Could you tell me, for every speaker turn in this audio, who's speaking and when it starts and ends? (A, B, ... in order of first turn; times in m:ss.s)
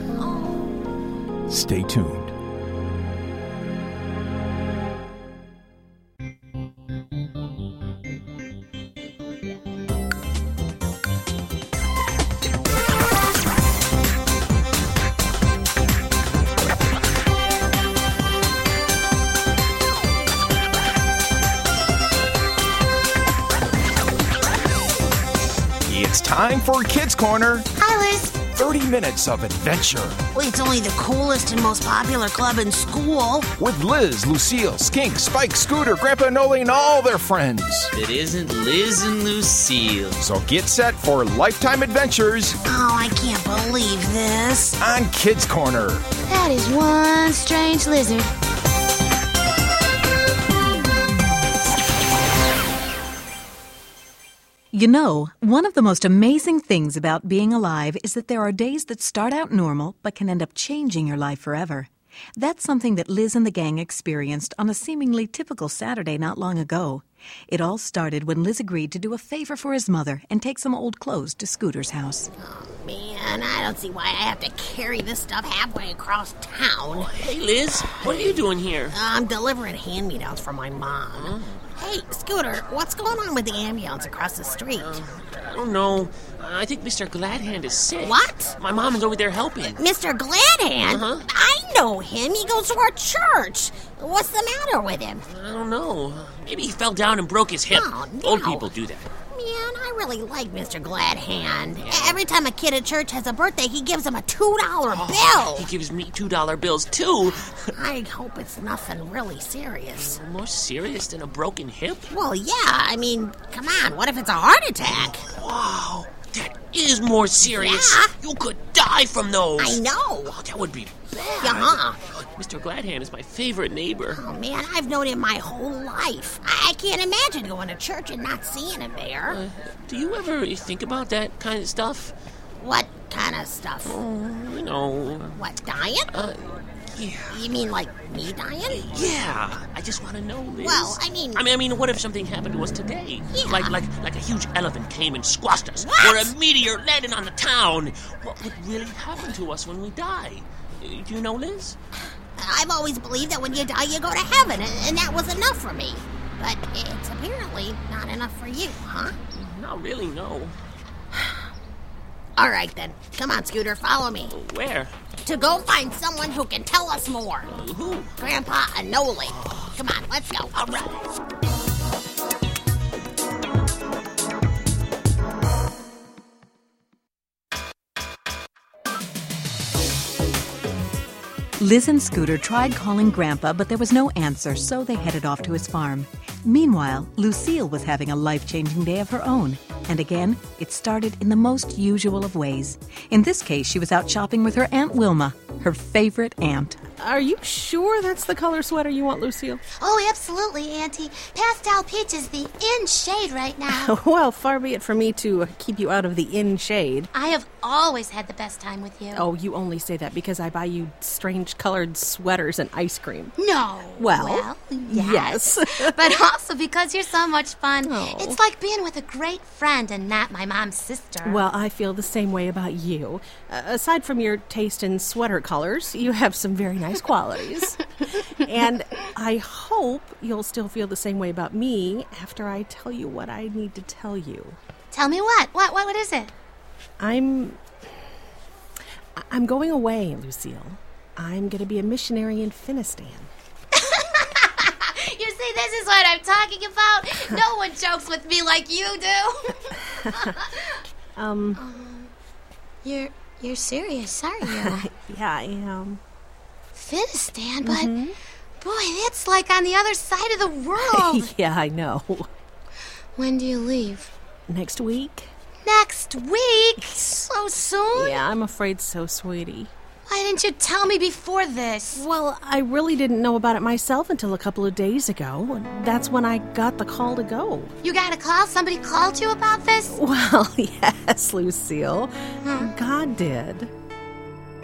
0:00.2-0:00.6 A
0:01.5-0:02.3 B
0:25.8-0:27.7 B
0:27.8-0:28.4 C
0:28.4-0:30.2 B
0:30.3-0:33.5 A
0:33.6-0:37.9 B
0:38.0-0:40.2 D
0:40.2-0:42.6 B
0:42.6-0:44.8 A
0:44.8-0:46.0 B
0:46.3-0:48.3 C
0:54.7-1:12.3 E
1:12.4-1:17.3 A
1:16.9-1:19.0 F
1:17.9-1:25.0 A
1:21.1-1:21.6 F
1:24.8-1:29.8 F
1:28.0-1:28.5 A
1:29.8-1:35.2 A
1:30.9-1:31.2 F
1:35.2-1:39.1 F
1:37.7-1:38.7 A
1:39.3-1:45.7 A
1:41.8-1:42.2 F
1:44.9-1:47.7 F
1:47.7-1:50.2 A
1:49.9-1:52.1 F
1:52.1-1:55.2 A
1:54.9-2:04.2 F
1:57.4-1:58.1 A
1:59.6-2:00.3 A
2:01.4-2:02.0 A
2:04.1-2:09.4 A
2:09.2-2:12.1 F
2:12.6-2:14.0 A
2:13.8-2:15.4 F
2:15.4-2:16.3 A
2:16.1-2:17.5 F
2:17.3-2:19.1 A
2:18.7-2:31.8 F
2:20.6-2:21.4 A
2:23.3-2:23.7 A
2:25.7-2:26.3 A
2:32.4-2:39.2 A
2:39.3-2:40.6 F
2:42.4-2:44.3 A
2:44.3-2:44.9 F
2:45.2-2:47.5 A
2:47.4-2:48.2 F
2:48.2-2:51.0 A
2:49.2-2:49.8 F
3:01.6-3:16.8 E
3:17.0-3:19.6 G
3:19.8-3:23.9 C
3:23.7-3:27.1 G
3:27.1-3:29.2 C
3:29.1-3:33.4 G
3:33.4-3:41.4 C
3:34.0-3:36.2 G
3:37.8-3:38.4 G
3:41.2-3:54.6 G
3:54.9-3:56.3 C
3:57.0-3:57.6 G
3:59.2-4:03.3 G
4:03.8-4:10.8 C
4:10.0-4:10.3 G
4:11.2-4:11.6 G
4:11.6-4:12.1 C
4:12.8-4:14.9 C
4:14.4-4:16.0 G
4:16.7-4:17.9 C
4:17.6-4:18.2 G
4:18.6-4:21.3 C
4:20.8-4:22.3 G
4:23.2-4:24.1 C
4:24.5-4:25.3 G
4:25.6-4:28.2 C
4:26.8-4:27.2 G
4:27.9-4:29.7 G
4:30.1-4:32.0 C
4:31.9-4:37.7 G
4:37.8-4:40.0 C
4:39.9-4:43.7 G
4:42.4-4:42.7 C